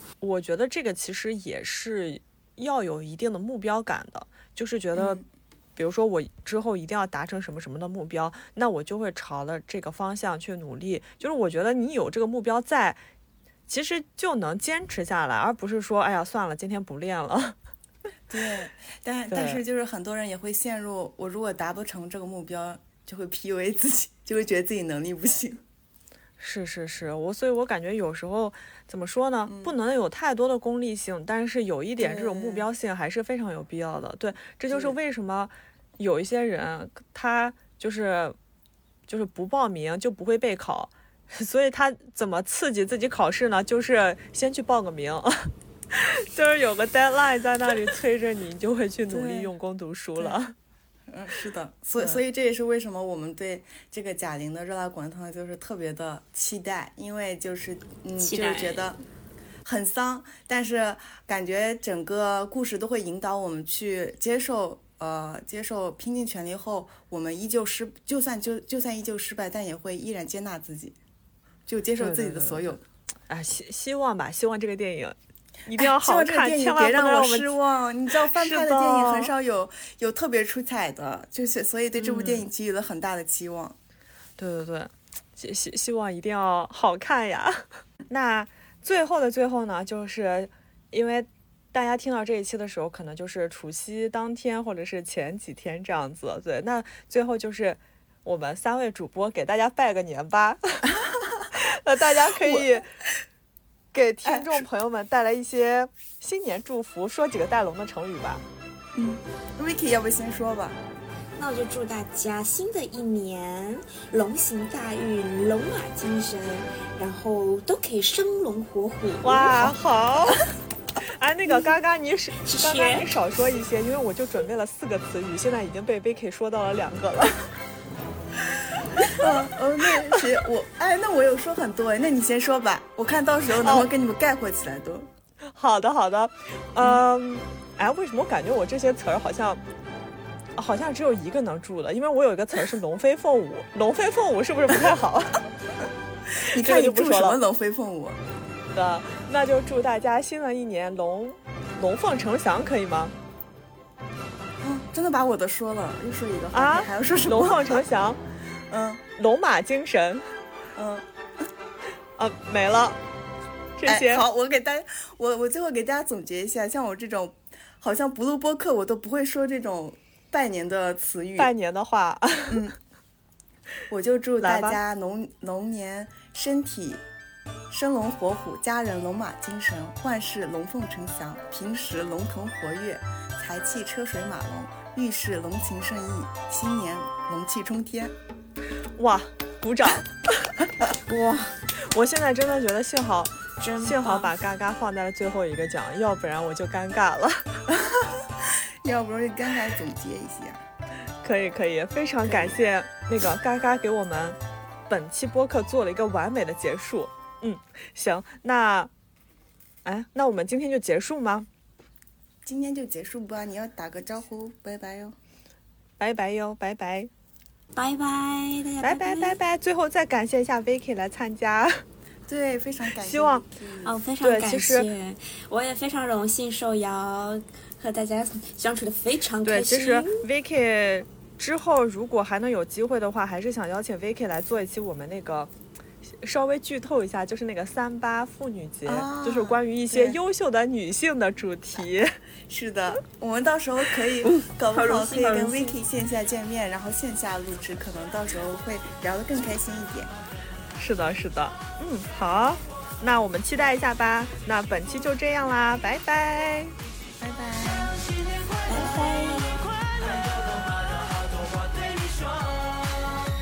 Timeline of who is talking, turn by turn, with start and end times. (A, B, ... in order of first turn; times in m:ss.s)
0:00.2-0:05.2 A
0:05.0-0:05.2 B
0:05.8-0:13.0 A
0:13.7-0:17.6 A
0:18.3-0:25.6 B
0:19.3-0:19.6 A
0:26.4-0:38.4 A
0:29.5-0:29.7 B
0:32.0-0:32.7 B
0:34.7-0:35.0 B
0:39.1-0:50.6 A
0:49.1-0:49.5 B
0:51.1-0:59.0 B
0:58.2-0:58.9 C
0:59.6-1:11.0 B
1:11.7-1:12.8 B
1:12.0-1:12.8 A
1:13.3-1:17.5 A
1:15.8-1:23.8 B
1:18.1-1:19.3 A
1:22.0-1:22.5 A
1:24.4-1:41.0 A
1:41.0-1:41.5 B
1:41.5-1:42.9 A
1:42.4-1:42.8 B
1:43.9-1:48.4 A
1:44.2-1:44.7 B
1:49.0-1:50.8 B
1:51.4-1:59.6 C
1:59.2-2:00.4 A
2:01.0-2:07.4 A
2:02.4-2:03.1 C
2:09.0-2:15.1 B
2:13.6-2:13.9 A
2:15.5-2:19.6 A
2:20.6-2:25.3 A
2:26.4-2:28.2 B
2:26.6-2:27.4 A
2:28.7-2:33.1 A
2:34.6-2:37.9 B
2:36.5-2:38.2 A
2:38.7-2:39.0 B
2:39.2-2:40.2 A
2:40.8-2:41.0 B
2:42.2-2:43.0 A
2:43.8-2:44.2 A
2:43.9-2:51.5 B
2:51.4-2:52.6 A
2:52.5-2:52.8 B
2:53.9-2:57.0 B
2:54.4-2:54.8 A
2:57.7-3:08.1 B
3:09.0-3:10.5 A
3:11.1-3:11.5 C
3:11.8-3:17.4 A
3:13.6-3:14.3 C
3:17.9-3:20.6 B
3:21.2-3:24.4 A
3:22.2-3:22.6 B
3:24.9-3:28.9 A
3:29.8-3:31.5 A
3:32.4-3:35.2 B
3:36.0-3:37.1 A
3:37.8-3:39.4 C
3:38.8-3:41.8 A
3:42.3-3:44.0 B
3:43.0-3:43.4 A
3:43.8-3:50.3 C
3:44.2-3:44.9 A
3:49.4-3:55.5 A
3:56.1-4:02.2 A
3:58.9-4:00.2 B
4:02.5-4:10.1 B
4:04.2-4:05.8 C
4:10.8-4:16.7 A
4:17.2-4:18.0 B
4:18.7-4:19.7 C
4:18.8-4:20.6 A
4:21.4-4:22.0 A